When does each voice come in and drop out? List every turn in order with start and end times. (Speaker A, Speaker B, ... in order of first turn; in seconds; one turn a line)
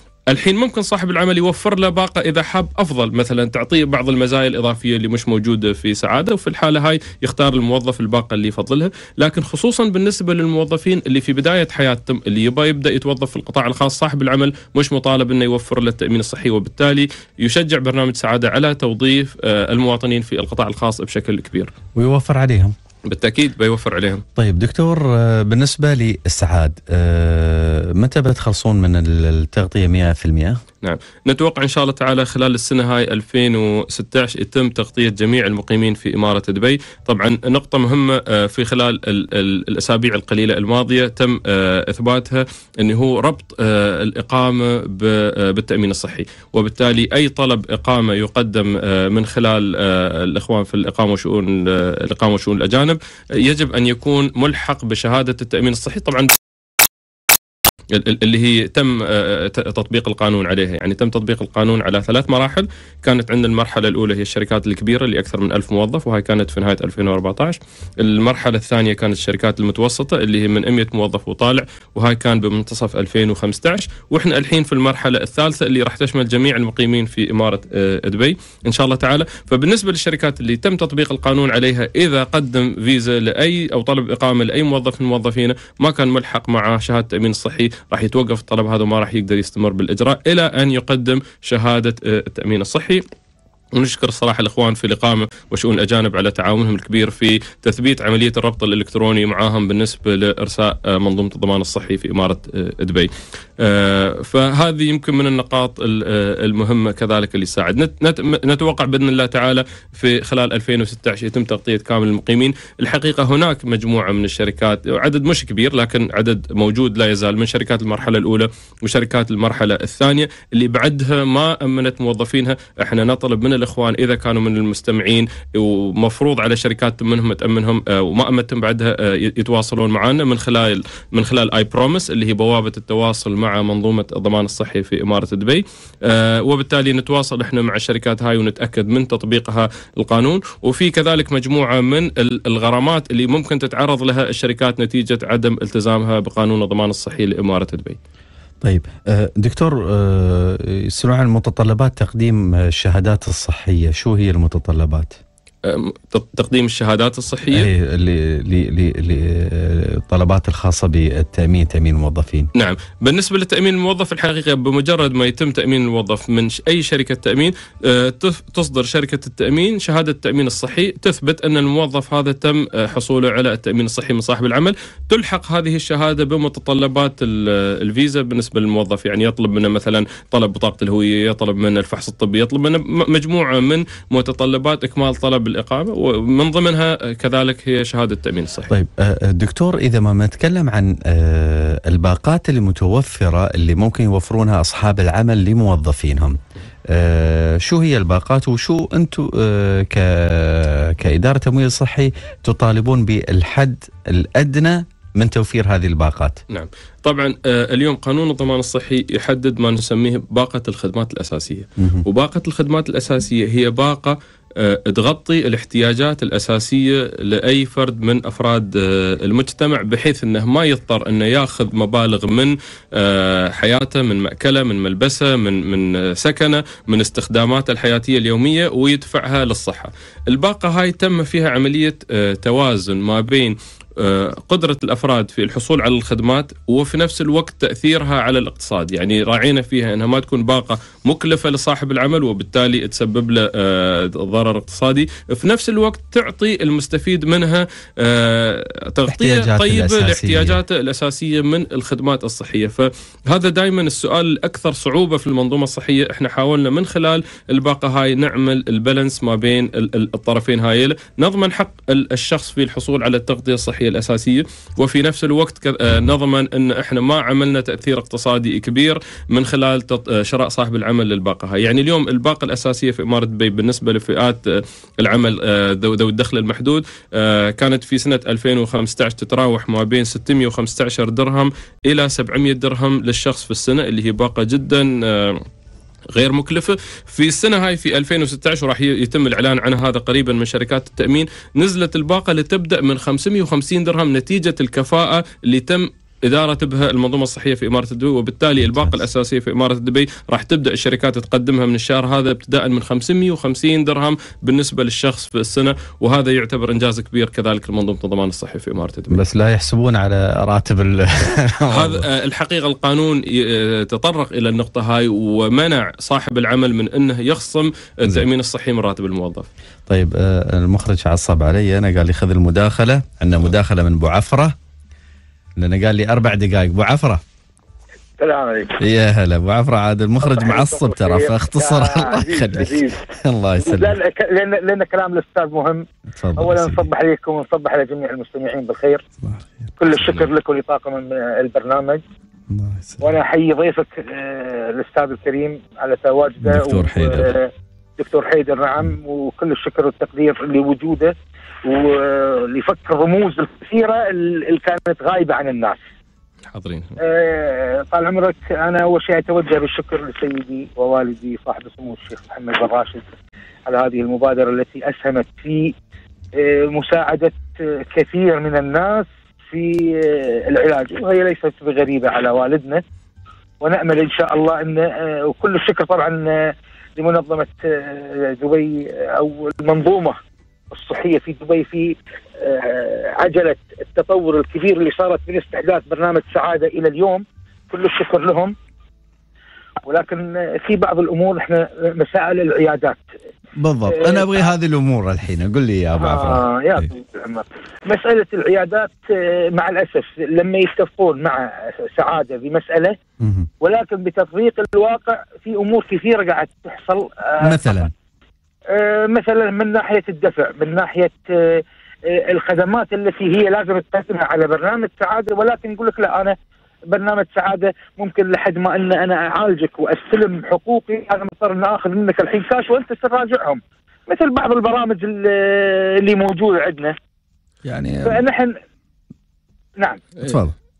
Speaker A: 0.3-21.7
Speaker B: 21.9-22.8
Speaker A: 23.1-24.2
Speaker B: 24.4-30.6
Speaker A: 30.8-56.4
Speaker A: 57.9-93.0
Speaker A: 93.7-148.0
Speaker B: 148.6-155.2
Speaker A: 155.7-157.7
Speaker B: 157.5-162.5
Speaker A: 162.6-188.7
Speaker B: 188.7-206.4
Speaker A: 206.5-285.4
Speaker B: 211.8-212.0
Speaker B: 249.1-250.6
Speaker A: 286.1-309.2
Speaker B: 298.6-298.9
Speaker B: 309.1-312.1
Speaker A: 311.7-319.5
Speaker B: 319.9-324.6
Speaker B: 325.6-327.2
Speaker C: 328.2-328.8
Speaker B: 328.8-334.0
Speaker C: 330.2-333.0
Speaker C: 333.6-335.9
Speaker B: 336.2-336.9
Speaker C: 336.4-339.0
Speaker B: 339.2-339.7
Speaker C: 339.8-342.0
Speaker A: 339.9-340.3
Speaker B: 342.5-343.2
Speaker C: 343.0-355.8
Speaker B: 346.4-347.4
Speaker A: 356.5-357.0
Speaker C: 357.0-363.0
Speaker C: 363.7-365.8
Speaker C: 366.4-372.8
Speaker C: 373.6-380.2
Speaker C: 380.7-388.6
Speaker C: 389.9-393.1
Speaker B: 393.6-396.8
Speaker C: 393.9-394.5
Speaker C: 396.0-403.0
Speaker B: 403.2-403.5
Speaker C: 403.6-407.9
Speaker B: 407.4-407.9
Speaker C: 408.7-416.4
Speaker C: 416.9-427.0
Speaker B: 427.6-428.2
Speaker C: 428.0-428.6
Speaker C: 429.8-430.1
Speaker B: 430.2-430.5